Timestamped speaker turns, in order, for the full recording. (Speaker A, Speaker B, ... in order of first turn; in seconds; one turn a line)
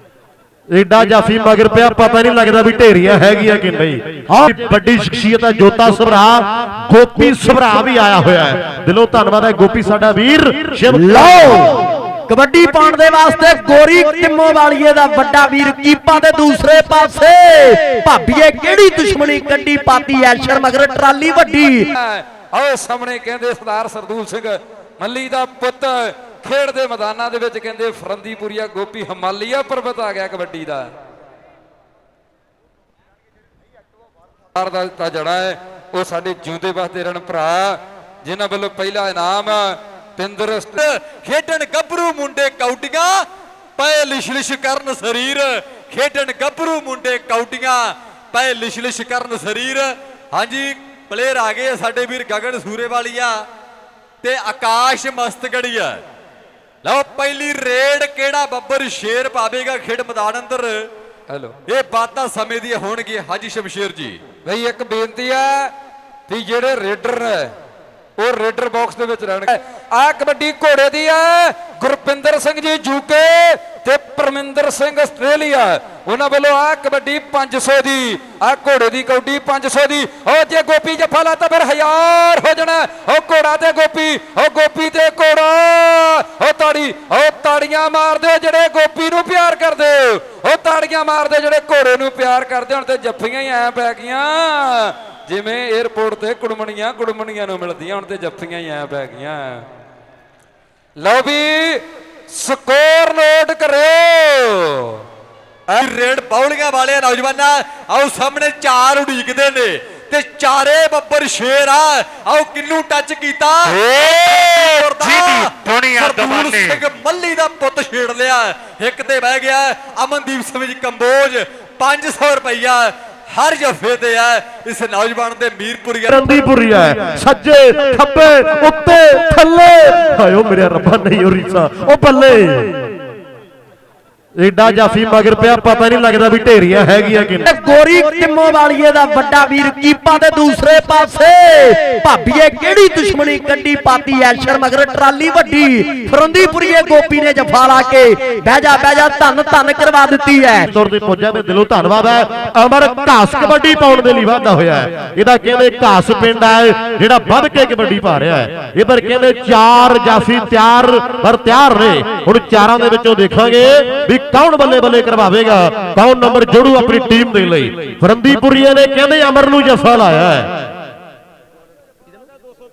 Speaker A: 0.7-11.6
Speaker B: 10.9-21.9
Speaker C: 21.9-30.9
Speaker C: 34.5-40.8
Speaker D: 40.8-43.2
Speaker D: 43.8-53.3
Speaker D: 54.2-56.0
Speaker D: 56.8-60.8
Speaker C: 61.3-61.6
Speaker D: 61.7-64.2
Speaker C: 64.5-65.7
Speaker C: 66.3-67.5
Speaker C: 68.2-99.7
Speaker C: 101.0-105.0
Speaker D: 105.7-126.2
Speaker C: 113.7-115.2
Speaker A: 126.1-132.8
Speaker A: 134.4-137.5
Speaker B: 137.4-150.7
Speaker A: 150.7-170.5